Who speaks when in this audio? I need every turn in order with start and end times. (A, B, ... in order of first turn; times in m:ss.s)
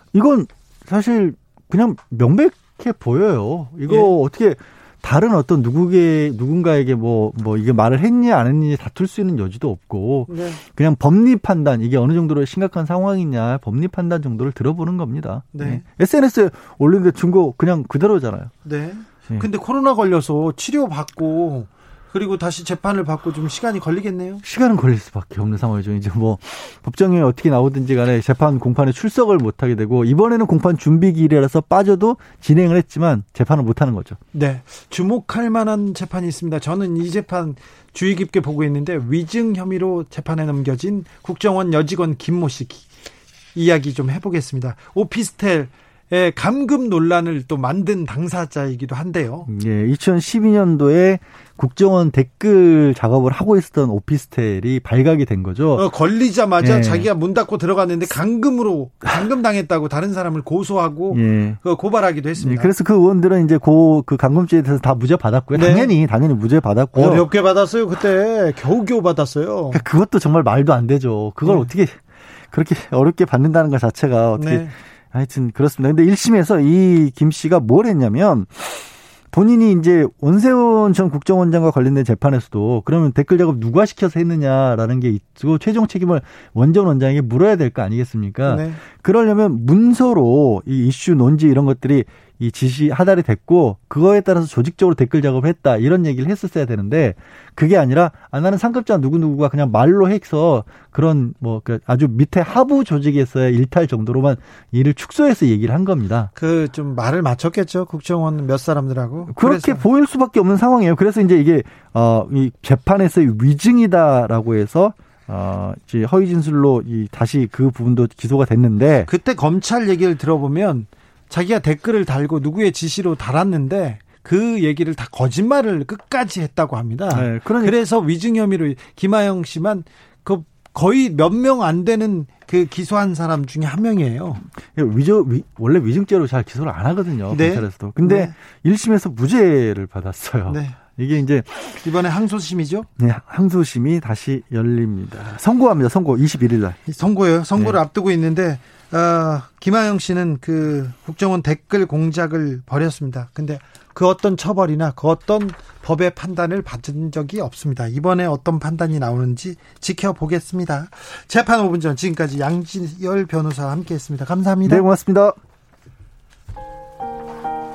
0:00.1-0:18.5 A
0:03.9-0:04.1 B
0:10.3-0:10.6 B
0:15.5-0:15.8 B
0:18.6-0:24.4 B
0:24.4-0:34.2 A
0:34.3-0:42.9 B
0:43.6-0:49.5 B
0:49.5-0:55.8 A
0:55.8-1:02.7 B
0:56.6-0:57.1 A
1:01.1-1:01.6 A
1:02.4-1:07.3 A
1:05.6-1:05.9 B
1:06.9-1:09.8 B
1:09.7-1:12.0 A
1:11.4-1:11.7 B
1:12.5-1:46.3 A
1:14.4-1:14.7 B
1:28.5-1:28.8 B
1:46.4-1:49.8 B
1:49.3-1:59.1 A
1:59.1-2:14.4 B
2:07.1-2:07.8 A
2:14.7-2:21.7 A
2:17.3-2:18.3 B
2:20.5-2:20.8 B
2:21.8-2:22.9 B
2:23.0-2:26.8 A
2:26.9-2:44.8 B
2:44.6-2:45.4 A